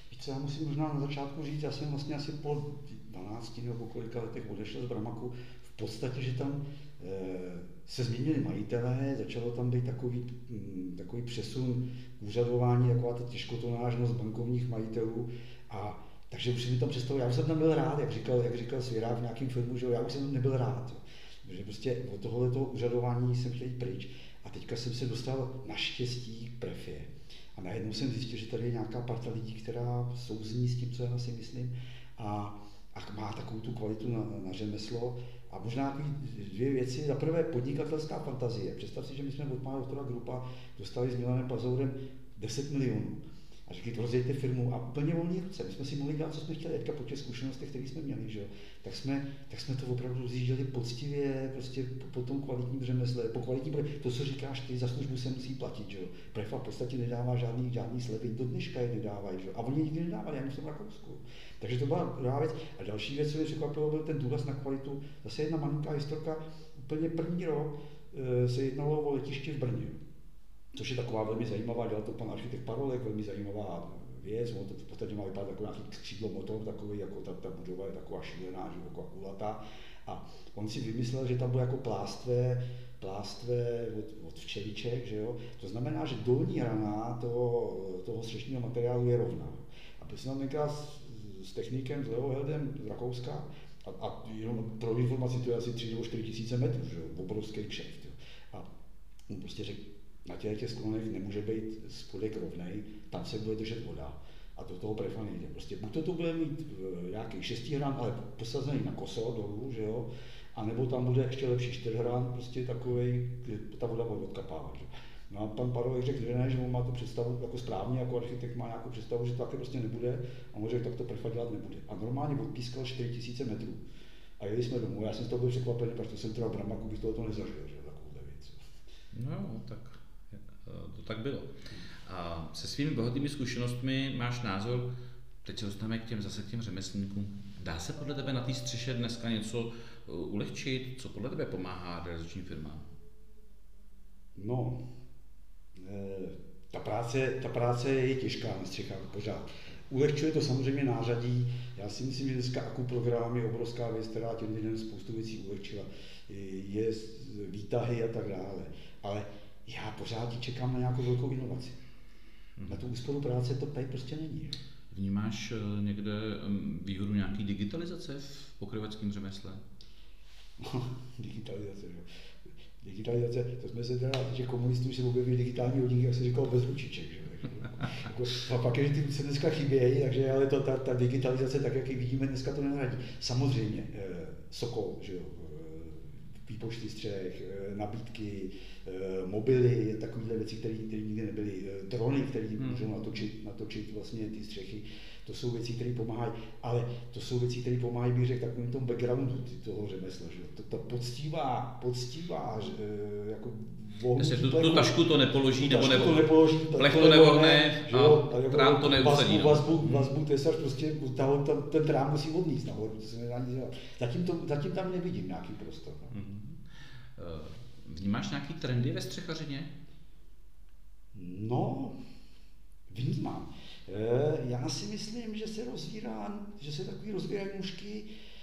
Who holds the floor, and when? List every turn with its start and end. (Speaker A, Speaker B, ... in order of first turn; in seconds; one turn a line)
Speaker A: 0.1-70.0
Speaker A: 70.7-98.7
Speaker A: 99.3-123.8
Speaker A: 124.4-128.6
Speaker B: 129.1-134.9
Speaker B: 135.4-142.9
Speaker A: 144.4-144.8
Speaker A: 145.8-161.8
Speaker B: 162.6-162.8
Speaker A: 162.7-164.6
Speaker B: 164.9-169.6
Speaker A: 170.6-172.1
Speaker A: 172.8-205.0
Speaker B: 192.6-192.9
Speaker B: 204.2-210.2
Speaker A: 205.6-216.1
Speaker B: 216.1-219.7
Speaker A: 221.1-222.0
Speaker A: 222.9-228.1